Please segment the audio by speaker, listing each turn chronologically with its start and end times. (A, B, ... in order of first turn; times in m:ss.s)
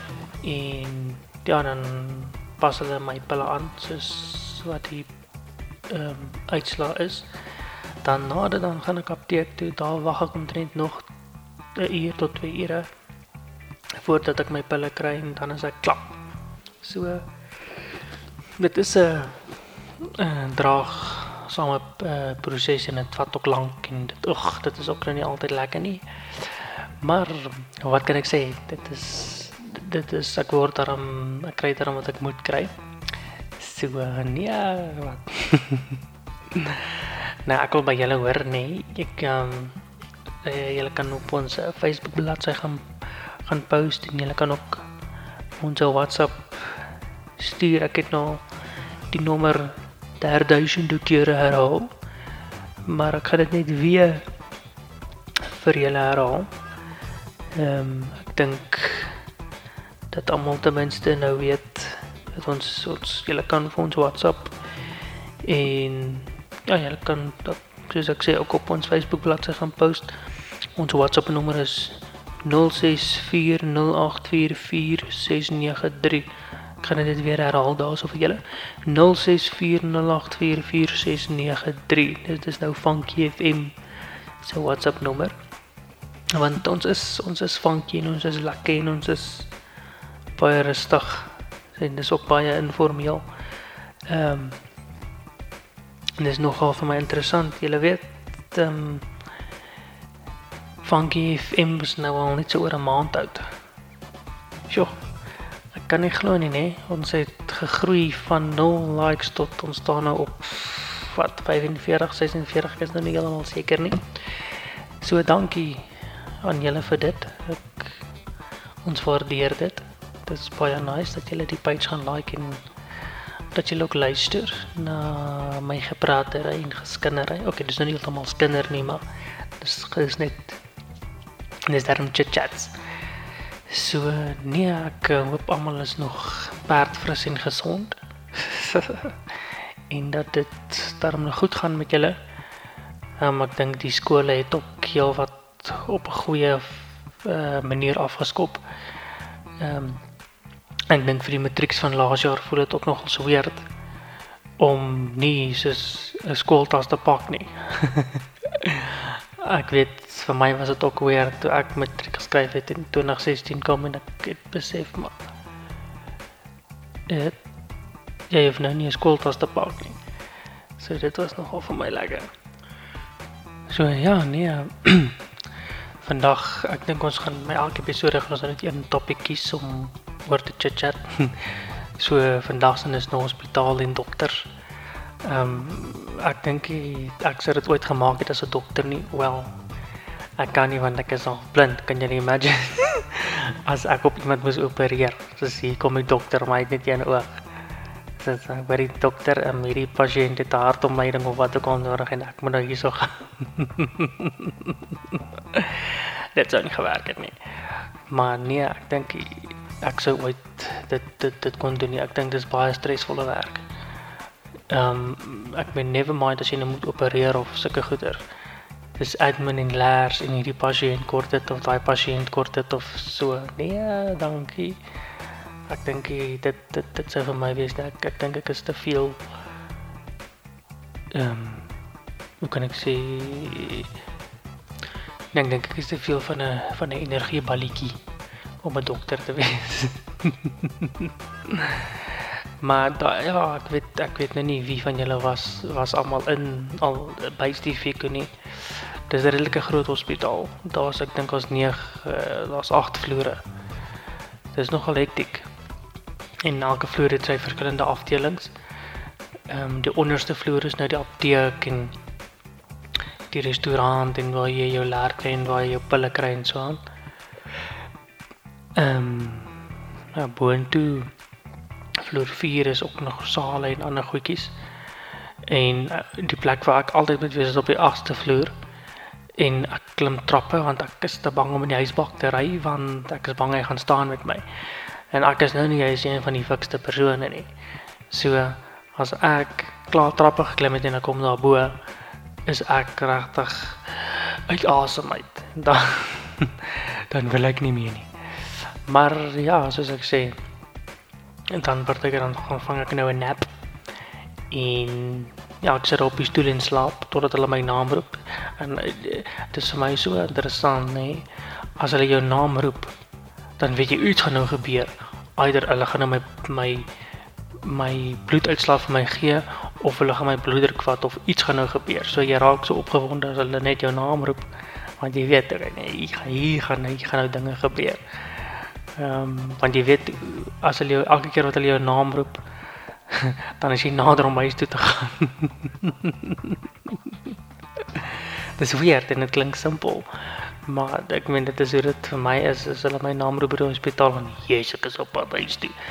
0:00.4-0:05.1 A
0:05.9-0:07.3 A
0:08.0-0:11.1 A
0:11.8-0:12.9 A
0:14.0-0:16.1 A
0:16.8-0:17.3 A
0:18.6-0:32.7 A
0:33.6-0:36.0 A
0:36.5-0:39.8 A
0:40.4-0:42.9 A
0:43.5-0:44.8 A
0:45.6-0:48.4 A
0:49.1-0:51.9 A
0:52.8-0:54.2 A
0:55.4-0:56.5 A
0:57.5-0:59.2 A
1:00.1-1:04.5 A
1:05.4-1:10.2 A
1:10.8-1:16.3 A
1:16.8-1:23.7 A
1:24.4-1:25.3 A
1:26.3-1:29.5 A
1:30.4-1:33.2 A
1:34.1-1:34.6 A
1:36.2-1:39.1 A
1:40.8-1:43.5 A
1:44.7-1:44.9 A
1:45.7-1:54.5 A
1:55.0-1:55.8 A
1:56.4-1:58.0 A
1:58.8-2:02.6 A
2:03.5-2:09.0 A
2:09.6-2:10.6 A
2:11.7-2:12.7 A
2:13.7-2:22.2 A
2:23.2-2:28.6 A
2:29.6-2:30.0 A
2:30.9-2:33.7 A
2:34.6-2:45.1 A
2:47.1-2:47.4 A
2:48.3-2:50.0 A
2:50.8-2:52.3 A
2:53.7-2:55.2 A
2:56.0-3:04.5 A
3:05.2-3:09.6 A
3:10.4-3:17.4 A
3:18.2-3:33.6 A
3:34.7-3:38.2 A
3:39.0-3:44.8 A
3:45.7-3:49.2 A
3:51.1-3:51.7 A
3:52.4-3:53.9 A
3:55.3-3:58.0 A
3:58.6-4:13.4 A
4:14.5-4:15.5 A
4:16.4-4:18.5 A
4:19.5-4:21.9 A
4:23.3-4:26.8 A
4:28.8-4:29.6 A
4:30.1-4:31.1 A
4:32.0-4:34.5 A
4:35.4-4:38.5 A
4:39.4-4:44.4 A
4:45.1-4:47.5 A
4:48.1-4:51.8 A
4:52.4-4:58.1 A
4:58.6-5:00.4 A
5:01.5-5:03.5 A
5:04.5-5:11.3 A
5:11.8-5:12.9 A
5:13.6-5:16.9 A
5:17.6-5:24.4 A
5:25.0-5:32.4 A
5:33.1-5:37.2 A
5:37.9-5:45.8 A